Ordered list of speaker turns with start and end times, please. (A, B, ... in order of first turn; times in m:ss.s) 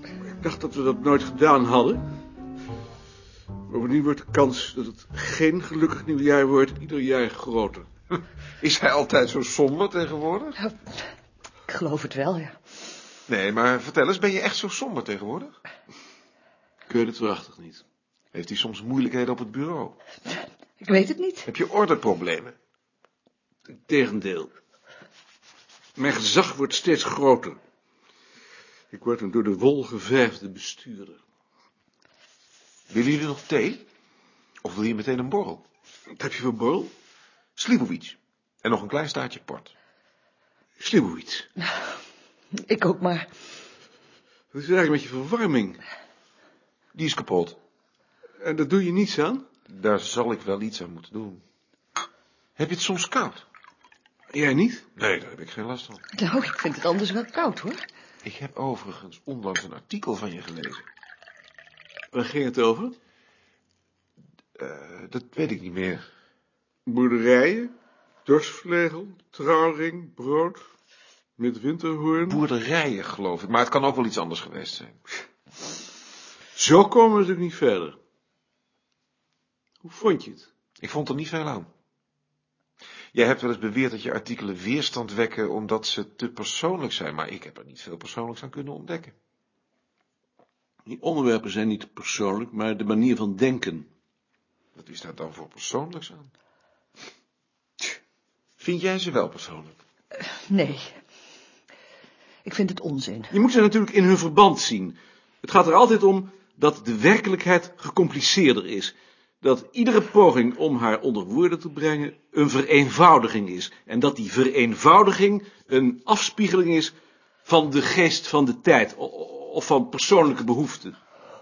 0:00.4-0:02.0 A
0:03.7-0:07.9 A
0:08.6-0:10.6 B
0:10.6-0:11.0 C
0:11.7-0:12.6 C
0:13.3-0:15.5 B
0:16.9-0:17.8 A
0:18.3-0:20.0 B
0:20.3-0:21.5 C
0:21.5-0:22.6 B
0:23.9-0:24.6 A
0:26.0-0:27.6 A
0:28.9-0:31.2 A
0:32.9-0:33.8 B
0:34.6-0:35.6 B
0:36.2-0:36.9 A
0:37.6-0:39.7 B
0:40.8-0:41.5 A
0:42.6-0:43.3 C
0:44.5-0:45.8 A
0:47.0-0:47.6 B
0:48.4-0:49.4 A
0:49.7-0:51.4 B
0:52.6-0:53.4 B
0:54.3-0:54.9 A
0:55.0-0:56.0 B
0:56.1-0:57.8 C
0:58.2-1:00.8 B
1:02.1-1:03.0 A
1:04.6-1:06.0 B
1:06.9-1:07.7 A
1:08.3-1:10.6 A
1:11.4-1:12.4 A
1:12.3-1:15.0 B
1:16.6-1:18.0 A
1:19.8-1:20.5 A
1:20.8-1:21.7 B
1:23.1-1:29.1 B
1:30.9-1:33.9 A
1:34.8-1:36.3 B
1:38.6-1:39.8 B
1:40.3-1:41.0 C
1:42.4-1:43.3 C
1:43.3-1:56.9 A
1:57.5-2:01.0 A